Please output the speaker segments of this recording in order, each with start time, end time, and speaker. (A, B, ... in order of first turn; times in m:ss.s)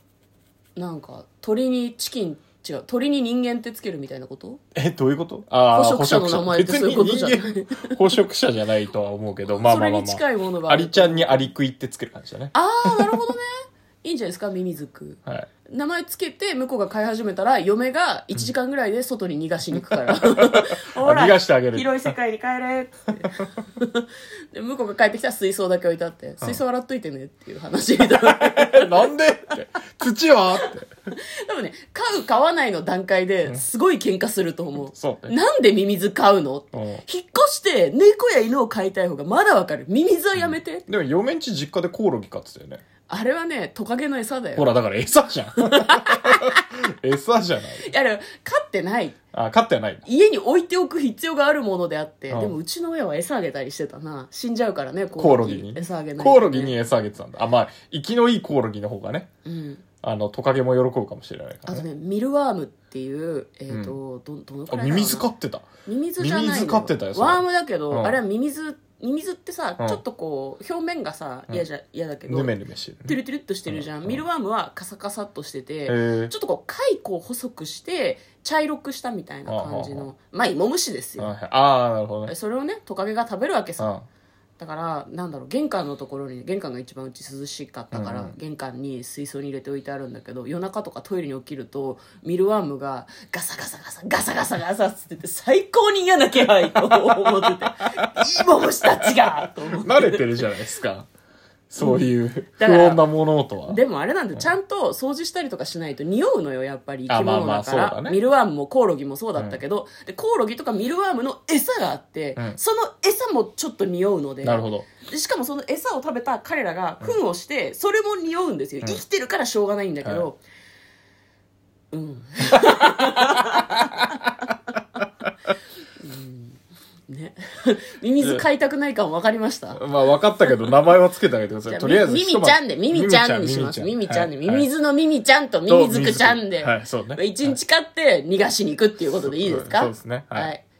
0:00.8-0:04.6 A
0:04.7-0:13.2 B
0:05.7-0:08.0 A
0:09.5-0:11.4 A
0:12.5-0:29.1 A
0:19.8-0:22.1 B
0:28.2-0:30.9 B
0:31.3-0:40.9 A
0:34.8-0:35.3 B
0:36.7-0:37.0 B
0:40.4-0:42.8 B
0:43.1-0:44.7 A
0:44.6-0:47.9 B
0:45.6-0:46.6 A
0:47.8-0:49.2 A
0:49.3-0:50.0 B
0:50.0-0:56.8 A
0:52.3-0:52.6 B
0:55.2-0:59.3 B
0:59.4-0:59.8 A
1:00.0-1:01.8 B
1:01.7-1:05.3 A
1:03.7-1:04.0 B
1:04.7-1:05.7 B
1:05.8-1:12.5 A
1:06.2-1:08.2 B
1:12.3-1:14.2 B
1:13.0-1:21.3 A
1:15.9-1:16.3 B
1:19.4-1:20.1 B
1:21.2-1:22.3 B
1:22.2-1:23.9 A
1:23.8-1:24.0 B
1:24.6-1:40.2 A
1:27.9-1:28.3 B
1:36.8-1:38.3 B
1:39.0-1:41.1 B
1:41.7-1:43.8 B
1:41.8-1:43.0 A
1:43.7-2:00.4 A
1:47.1-1:48.2 B
1:54.4-1:54.8 B
2:01.9-2:04.1 A
2:02.5-2:04.3 B
2:06.0-2:09.8 A
2:08.2-2:08.4 B
2:09.7-2:14.7 B
2:11.7-2:20.6 A
2:15.7-2:17.5 B
2:19.2-2:20.5 B